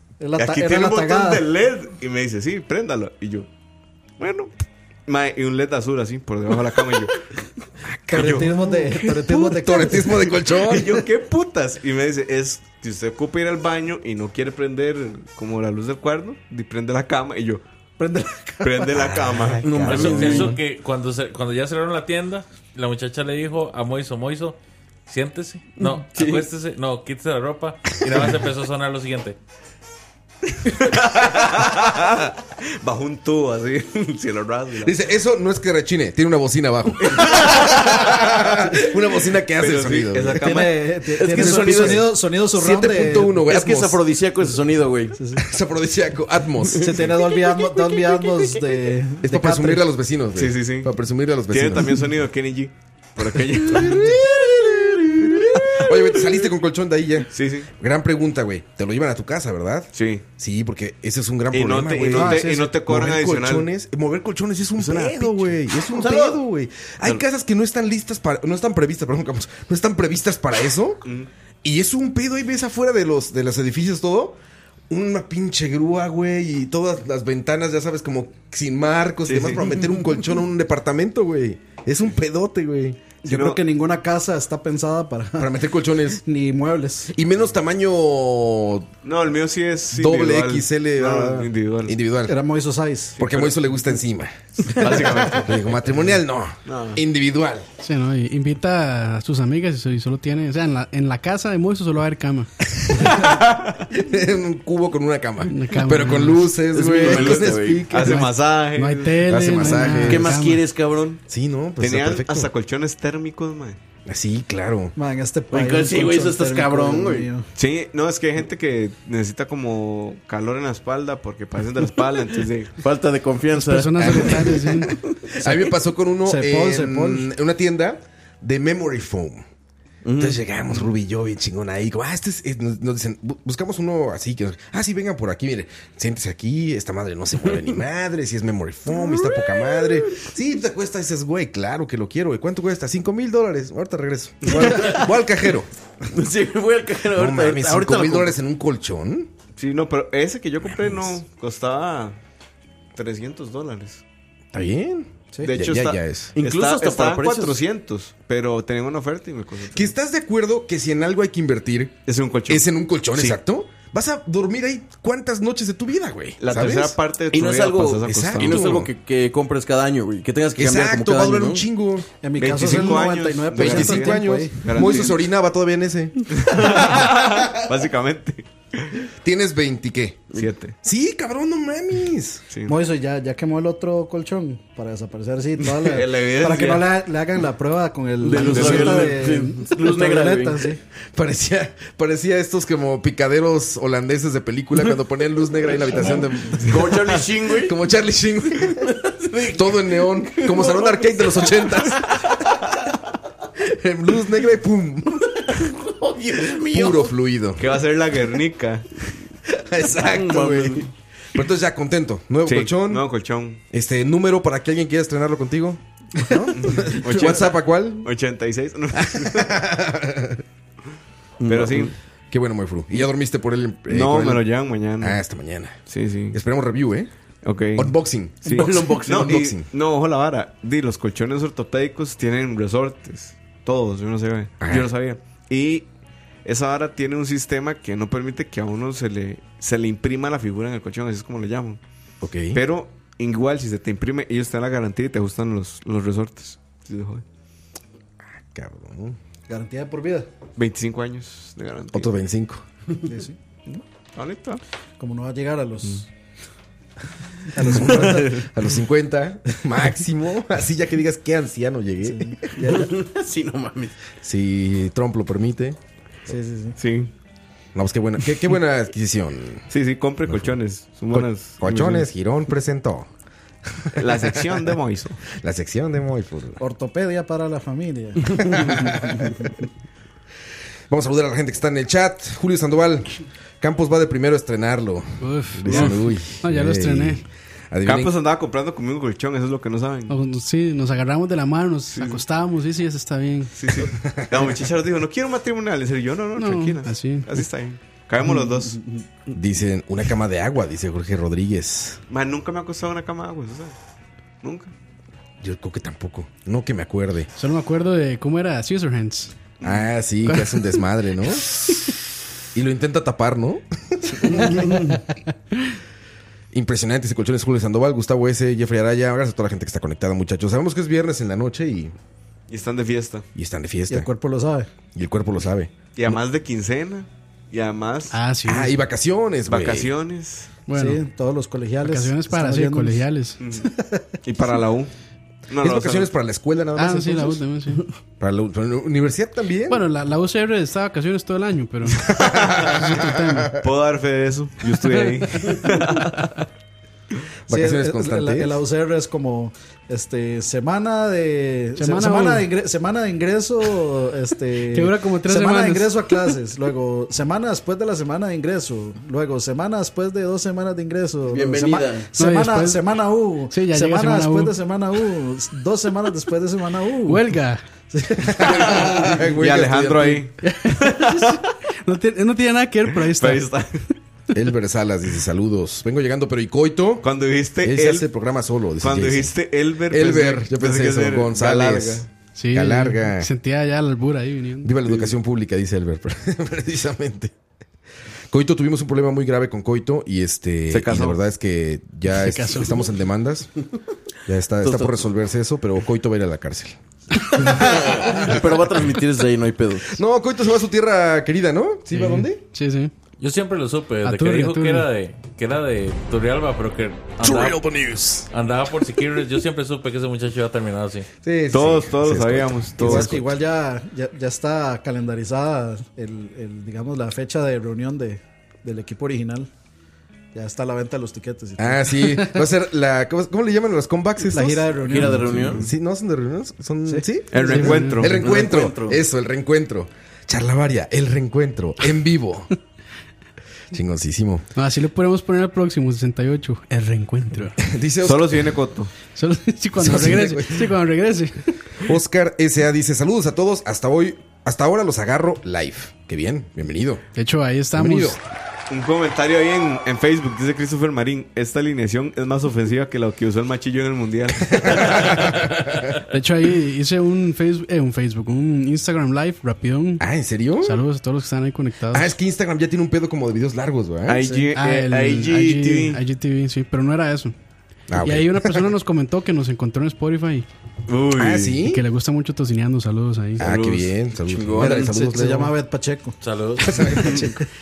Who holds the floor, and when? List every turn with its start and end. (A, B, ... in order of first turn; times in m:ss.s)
0:00.2-0:01.4 A
0:00.4-0:03.5 B
0:04.2-0:04.5 B
0:05.1-0:07.3 B
0:07.9-0:08.5 C
0:08.1-0:09.3 B
0:08.1-0:10.1 A
0:09.3-0:11.0 C
0:10.4-0:17.6 B
0:18.0-0:18.9 A
0:18.6-0:20.5 B
0:19.3-0:19.8 C
0:19.6-0:20.6 D
0:19.8-0:29.4 E
0:25.8-0:26.4 D
0:30.6-0:35.0 B
0:34.8-0:40.4 C
0:37.0-0:37.9 B
0:39.6-0:40.9 B
0:40.4-0:43.4 A
0:41.2-0:42.1 D
0:41.4-0:44.0 C
0:43.4-0:45.2 D
0:45.2-0:45.4 A
0:45.4-0:47.0 C
0:46.8-0:49.8 A
0:46.8-0:48.5 D
0:49.2-0:52.0 C
0:50.4-0:50.9 B
0:51.5-0:54.1 B
0:53.6-1:11.0 C
0:54.0-0:56.2 D
0:57.3-0:57.7 B
0:59.9-1:00.2 B
1:01.5-1:03.7 B
1:02.1-1:02.7 A
1:04.8-1:05.3 D
1:05.9-1:06.4 D
1:11.6-1:14.4 C
1:14.9-1:23.0 C
1:19.2-1:19.7 B
1:23.2-1:23.6 B
1:23.2-1:25.5 A
1:25.4-1:26.2 C
1:26.2-1:27.1 A
1:27.1-1:28.9 C
1:29.0-1:31.9 B
1:29.9-1:32.4 C
1:32.3-1:33.2 A
1:33.2-1:33.7 B
1:33.2-1:37.7 C
1:34.7-1:35.8 B
1:36.6-1:37.0 B
1:37.8-1:42.5 F
1:42.8-1:43.2 C
1:43.9-1:48.3 C
1:45.5-1:46.6 F
1:46.7-1:47.9 D
1:47.0-1:49.3 B
1:48.0-1:50.7 F
1:49.2-1:50.4 C
1:49.9-1:51.2 D
1:51.3-1:52.5 C
1:51.8-1:53.8 B
1:54.0-1:54.9 C
1:54.9-1:57.4 A
1:55.5-1:57.3 D
1:57.5-2:02.8 B
2:02.8-2:05.7 D
2:03.5-2:05.0 F
2:04.0-2:09.4 C
2:06.2-2:07.3 A
2:10.0-2:10.4 D
2:10.2-2:25.7 C
2:19.1-2:20.3 D
2:24.5-2:24.8 B
2:24.8-2:25.0 D
2:26.1-2:28.3 D
2:27.1-2:29.3 C
2:29.6-2:32.2 B
2:30.7-2:31.2 C
2:32.9-2:34.0 B
2:34.5-2:36.4 C
2:35.4-2:39.9 B
2:36.4-2:37.6 D
2:39.7-2:47.0 C
2:42.0-2:43.4 B
2:46.4-2:48.8 B
2:47.3-2:51.6 D
2:48.0-2:48.9 C
2:50.6-2:52.1 C
2:52.2-2:55.0 A
2:52.4-2:55.2 B
2:52.6-2:53.0 C
2:53.5-2:56.9 C
2:56.3-2:58.9 B
2:59.2-3:00.3 C
3:00.4-3:00.8 B
3:00.8-3:02.4 C
3:02.5-3:02.8 B
3:02.6-3:10.8 A
3:05.8-3:06.9 B
3:08.2-3:10.7 D
3:08.3-3:09.2 B
3:11.1-3:18.9 C
3:16.6-3:17.7 D
3:18.8-3:22.3 D
3:19.5-3:22.4 C
3:23.6-3:25.4 C
3:25.2-3:27.1 D
3:26.6-3:27.6 C
3:27.6-3:28.9 B
3:29.6-3:33.0 C
3:30.0-3:30.9 D
3:32.4-3:33.6 B
3:33.7-3:38.1 C
3:36.5-3:39.5 B
3:39.0-3:40.4 C
3:41.4-3:41.9 D
3:41.5-3:41.9 B
3:42.3-3:44.4 C
3:43.9-3:45.2 B
3:45.0-3:45.8 C
3:45.9-3:46.4 B
3:46.3-3:47.1 C
3:47.4-3:55.9 B
3:47.7-3:49.7 C
3:48.5-3:49.4 D
3:54.6-3:54.9 C
3:56.4-4:01.8 B
4:02.2-4:02.6 C
4:02.5-4:07.2 B
4:08.5-4:09.2 C
4:09.5-4:10.3 A
4:10.6-4:12.1 B
4:11.9-4:12.6 C
4:13.0-4:13.8 A
4:14.1-4:14.6 B
4:15.0-4:16.1 A
4:17.5-4:18.4 A
4:17.6-4:22.5 C
4:22.0-4:22.9 A
4:22.7-4:23.9 D
4:24.2-4:25.8 C
4:26.3-4:26.8 A
4:26.8-4:27.1 B
4:27.7-4:29.7 C
4:29.7-4:32.1 B
4:30.3-4:30.6 C
4:31.1-4:33.1 C
4:33.7-4:34.7 C
4:34.0-4:35.2 B
4:35.3-4:36.6 C
4:36.6-4:38.4 A
4:38.2-4:39.3 C
4:40.9-4:48.1 C
4:45.2-4:47.2 F
4:47.8-4:50.2 B
4:50.1-4:53.5 F
4:51.9-4:52.2 B
4:53.6-4:59.0 B
4:54.0-4:54.5 C
4:56.4-4:57.3 F
4:59.3-5:02.0 C
5:02.1-5:03.7 B
5:04.4-5:04.7 B
5:05.4-5:07.3 C
5:07.4-5:09.5 F
5:09.6-5:11.6 C
5:10.2-5:10.8 F
5:12.5-5:14.7 C
5:14.4-5:14.9 D
5:16.5-5:21.9 C
5:22.5-5:23.3 B
5:23.3-5:24.1 C
5:23.9-5:24.7 A
5:24.9-5:25.7 C
5:25.9-5:28.2 B
5:28.1-5:28.7 F
5:28.4-5:29.9 C
5:29.5-5:30.5 B
5:30.7-5:31.0 F
5:30.7-5:33.0 A
5:31.8-5:33.5 F
5:33.4-5:33.7 B
5:34.2-5:34.9 B
5:35.5-5:36.1 B
5:35.6-5:37.4 C
5:36.7-5:37.9 F
5:38.2-5:39.8 C
5:39.7-5:42.1 F
5:42.1-5:42.7 B
5:42.1-5:43.5 C
5:42.7-5:43.6 F
5:43.6-5:46.4 B
5:47.5-5:48.6 C
5:47.5-6:07.2 A
5:51.8-5:52.5 F
5:54.6-5:56.3 F
6:01.3-6:02.1 D
6:02.2-6:04.6 F
6:07.0-6:07.6 F
6:07.9-6:08.4 A
6:08.2-6:10.2 C
6:08.7-6:11.4 B
6:10.4-6:13.5 F
6:12.9-6:13.8 B
6:14.3-6:17.1 C
6:17.0-6:18.1 B
6:17.6-6:19.3 C
6:18.8-6:22.1 B
6:19.9-6:23.3 C
6:22.3-6:24.8 F
6:24.6-6:27.3 C
6:28.3-6:33.5 C
6:30.7-6:31.2 B
6:32.1-6:32.8 F
6:34.2-6:36.8 C
6:34.6-6:35.0 D
6:37.3-6:38.4 C
6:37.4-6:40.0 D
6:39.9-6:42.4 C
6:41.9-6:42.9 F
6:43.2-6:47.7 E
6:44.0-6:44.9 F
6:47.2-6:48.3 C
6:48.3-6:51.0 E
6:51.2-6:53.2 C
6:51.5-6:53.2 B
6:52.8-6:59.5 A
7:00.3-7:02.2 A
7:01.6-7:12.5 C
7:04.3-7:05.6 A
7:04.9-7:05.6 D
7:07.3-7:08.5 B
7:07.3-7:08.1 F
7:08.1-7:09.0 D
7:13.7-7:14.4 C
7:14.6-7:17.6 F
7:17.6-7:18.5 C
7:18.0-7:18.9 B
7:19.1-7:21.4 F
7:19.8-7:20.8 C
7:21.8-7:27.0 C
7:27.1-7:28.2 F
7:27.7-7:28.2 C
7:28.7-7:35.3 B
7:34.5-7:35.5 C
7:36.1-7:40.0 F
7:40.0-7:40.8 C
7:40.6-7:42.1 F
7:41.9-7:44.2 C
7:44.0-7:46.0 B
7:44.2-7:44.5 A
7:44.5-7:47.3 F
7:47.9-7:48.7 C
7:48.0-7:50.5 F
7:50.9-7:51.4 D
7:51.2-7:51.8 C
7:51.2-7:51.4 B
7:51.6-7:53.5 F
7:53.4-7:55.5 C
7:53.4-7:55.0 D
7:54.6-7:56.2 A
7:56.2-7:57.2 E
7:56.7-7:57.2 C
7:56.7-7:57.4 A